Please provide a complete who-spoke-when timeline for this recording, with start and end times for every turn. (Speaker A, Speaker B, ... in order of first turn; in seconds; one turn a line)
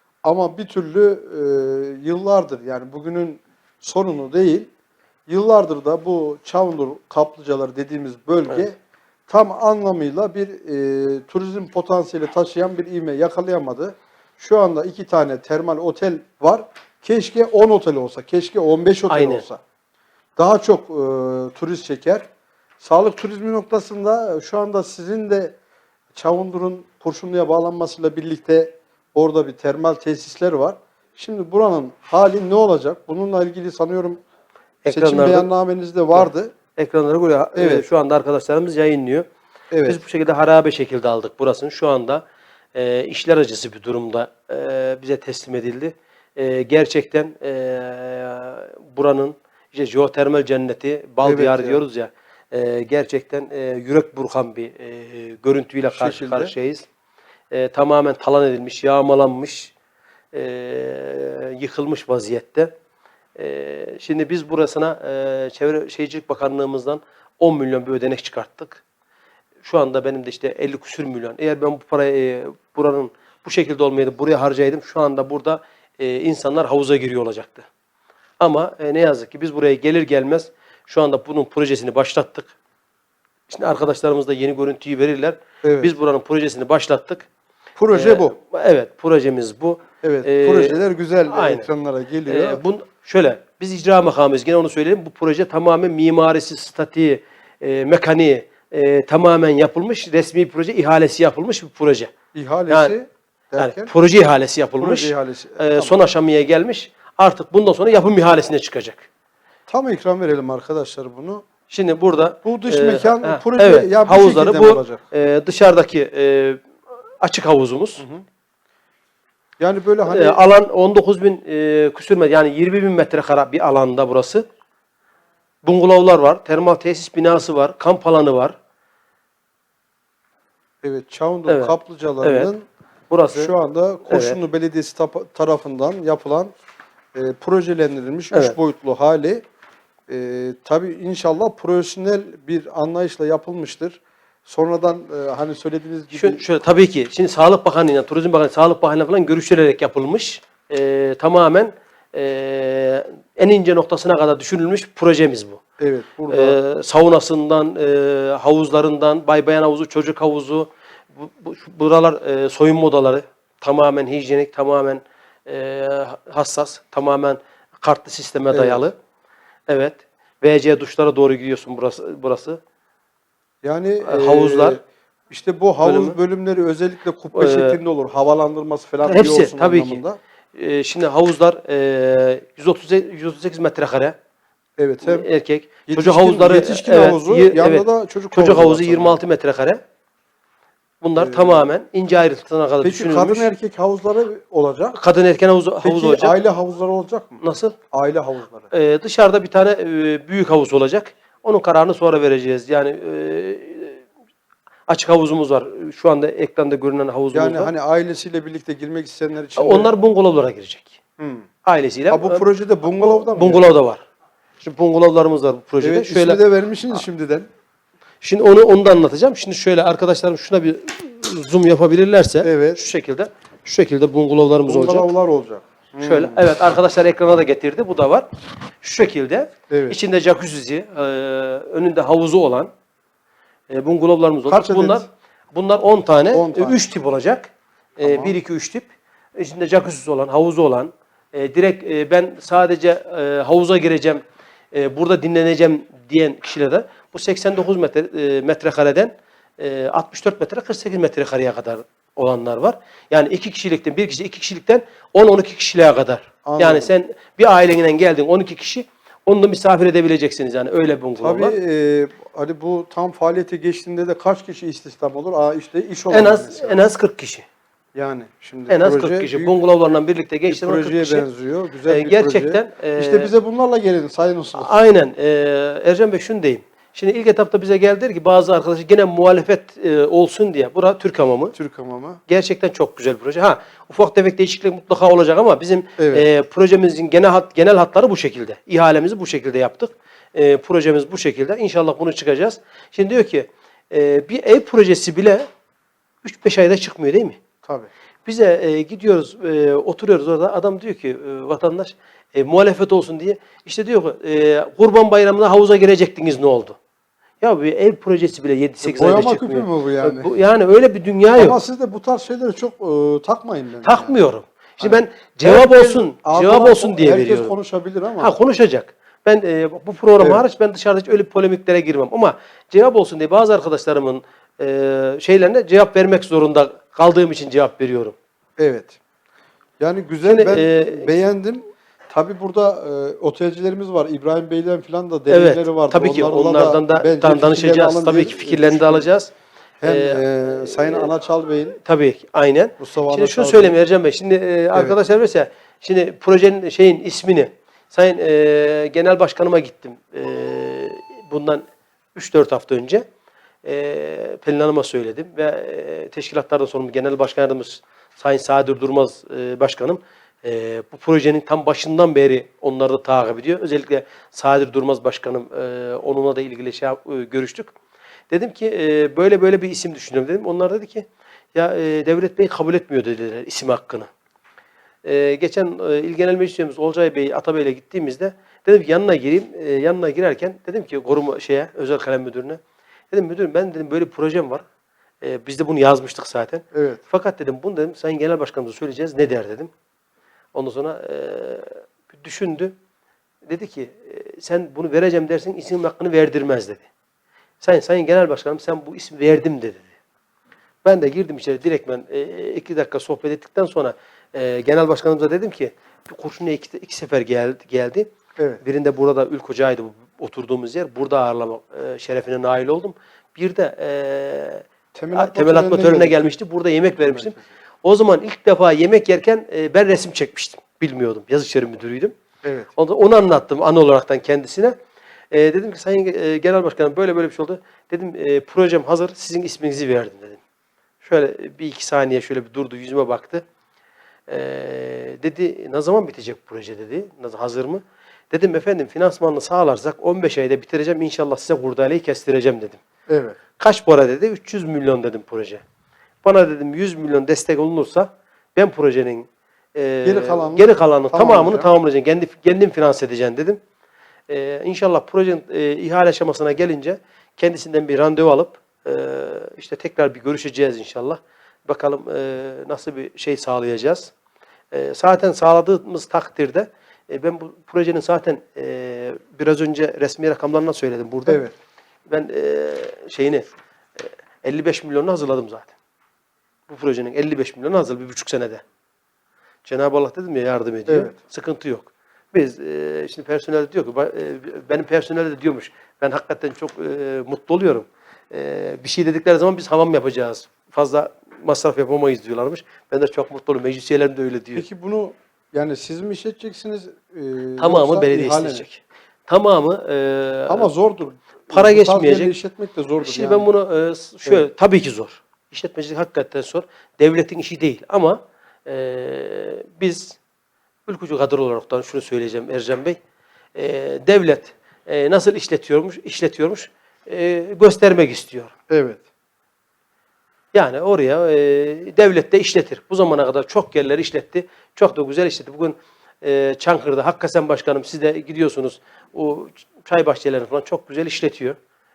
Speaker A: 0.2-4.7
Speaker A: 5.3-8.8
Speaker A: 9.3-19.6
Speaker B: 19.1-19.5
Speaker A: 20.4-22.2
Speaker A: 22.8-25.6
Speaker A: 26.1-34.2
Speaker B: 34.8-35.5
Speaker A: 34.9-36.5
Speaker B: 36.1-39.3
Speaker A: 37.5-37.9
Speaker A: 39.7-40.0
Speaker B: 39.9-42.2
Speaker B: 42.7-56.9
Speaker A: 51.2-51.8
Speaker A: 55.9-56.5
Speaker B: 57.5-59.7
Speaker B: 60.3-62.7
Speaker B: 63.4-68.8
Speaker B: 69.6-77.7
Speaker B: 78.4-82.5
Speaker B: 83.5-87.3
Speaker A: 85.6-85.9
Speaker A: 87.8-88.3
Speaker B: 87.9-91.7
Speaker A: 90.0-92.6
Speaker B: 92.3-102.1
Speaker A: 102.3-103.9
Speaker B: 102.7-103.0
Speaker B: 103.6-109.1
Speaker A: 104.8-106.0
Speaker A: 109.7-111.5
Speaker B: 111.7-116.6
Speaker A: 112.4-115.0
Speaker B: 117.2-118.0
Speaker A: 118.0-118.2
Speaker A: 119.6-120.4
Speaker B: 120.1-124.5
Speaker B: 125.7-128.6
Speaker A: 130.8-132.7
Speaker B: 131.5-132.5
Speaker B: 133.1-133.5
Speaker A: 133.3-136.5
Speaker B: 134.1-134.4
Speaker A: 137.2-139.4
Speaker A: 140.1-146.4
Speaker B: 146.1-155.6
Speaker A: 155.8-156.6
Speaker B: 156.3-168.9
Speaker A: 168.5-168.9
Speaker B: 169.7-172.6
Speaker A: 173.6-180.2
Speaker B: 174.1-174.8
Speaker B: 175.8-176.2
Speaker B: 177.3-177.8
Speaker B: 179.1-180.0
Speaker B: 180.6-184.2
Speaker A: 184.8-185.3
Speaker B: 185.0-189.8
Speaker A: 185.9-189.2
Speaker B: 191.0-193.5
Speaker A: 191.2-191.7
Speaker A: 192.8-195.0
Speaker B: 194.9-196.4
Speaker A: 195.8-197.4
Speaker B: 197.4-197.8
Speaker A: 197.9-198.7
Speaker B: 198.7-204.0
Speaker B: 204.9-207.7
Speaker A: 207.3-209.9
Speaker B: 209.6-211.0
Speaker A: 211.2-211.5
Speaker B: 211.7-212.4
Speaker A: 212.1-213.6
Speaker B: 213.0-214.0
Speaker B: 214.6-216.4
Speaker A: 215.8-217.5
Speaker B: 218.2-225.1
Speaker A: 222.4-222.8
Speaker A: 224.7-226.4
Speaker B: 226.0-228.3
Speaker B: 228.8-232.7
Speaker A: 229.7-230.0
Speaker B: 233.7-244.2
Speaker A: 234.5-235.1
Speaker A: 236.3-236.8
Speaker A: 238.0-238.3
Speaker B: 244.7-261.6
Speaker A: 256.4-256.9
Speaker A: 261.2-266.8
Speaker B: 266.1-267.5
Speaker A: 268.0-269.6
Speaker B: 268.7-271.3
Speaker A: 270.5-274.7
Speaker B: 271.9-273.3
Speaker B: 274.5-281.6
Speaker A: 281.6-282.2
Speaker B: 282.3-295.4
Speaker A: 286.0-286.3
Speaker B: 296.2-297.4
Speaker B: 298.3-306.8
Speaker B: 307.4-311.6
Speaker A: 308.8-310.3
Speaker A: 311.4-314.1
Speaker B: 313.8-317.5
Speaker A: 314.8-318.3
Speaker B: 318.2-328.1
Speaker A: 328.6-329.0
Speaker A: 329.8-339.1
Speaker B: 330.2-331.1
Speaker B: 335.3-339.3
Speaker A: 339.8-341.8
Speaker B: 339.9-341.1
Speaker B: 341.8-351.6
Speaker A: 342.8-343.8
Speaker B: 352.1-353.0
Speaker B: 353.6-367.7
Speaker B: 368.3-374.1
Speaker B: 375.0-382.6
Speaker B: 383.1-384.6
Speaker B: 385.2-389.7
Speaker A: 386.7-387.0
Speaker B: 390.5-392.8
Speaker B: 393.5-396.9
Speaker B: 397.6-399.9
Speaker B: 400.8-408.1
Speaker B: 408.6-422.1
Speaker A: 414.9-416.4
Speaker A: 416.9-417.5
Speaker A: 422.4-422.7
Speaker B: 422.8-424.8
Speaker B: 425.3-430.4
Speaker B: 431.0-433.4
Speaker B: 434.3-442.8
Speaker A: 443.1-443.4
Speaker B: 443.6-445.6
Speaker B: 446.2-453.6
Speaker A: 450.0-451.7
Speaker B: 454.3-464.1
Speaker B: 464.7-471.4
Speaker A: 471.3-471.5
Speaker B: 472.1-473.4
Speaker B: 474.0-475.7
Speaker B: 476.7-478.6
Speaker B: 479.7-494.6
Speaker A: 480.9-481.1
Speaker A: 494.5-498.7
Speaker B: 497.6-500.7
Speaker A: 500.5-503.5
Speaker B: 501.5-502.3
Speaker B: 503.0-510.2
Speaker B: 510.9-513.0
Speaker B: 513.5-518.5
Speaker A: 518.7-519.0
Speaker B: 520.5-531.6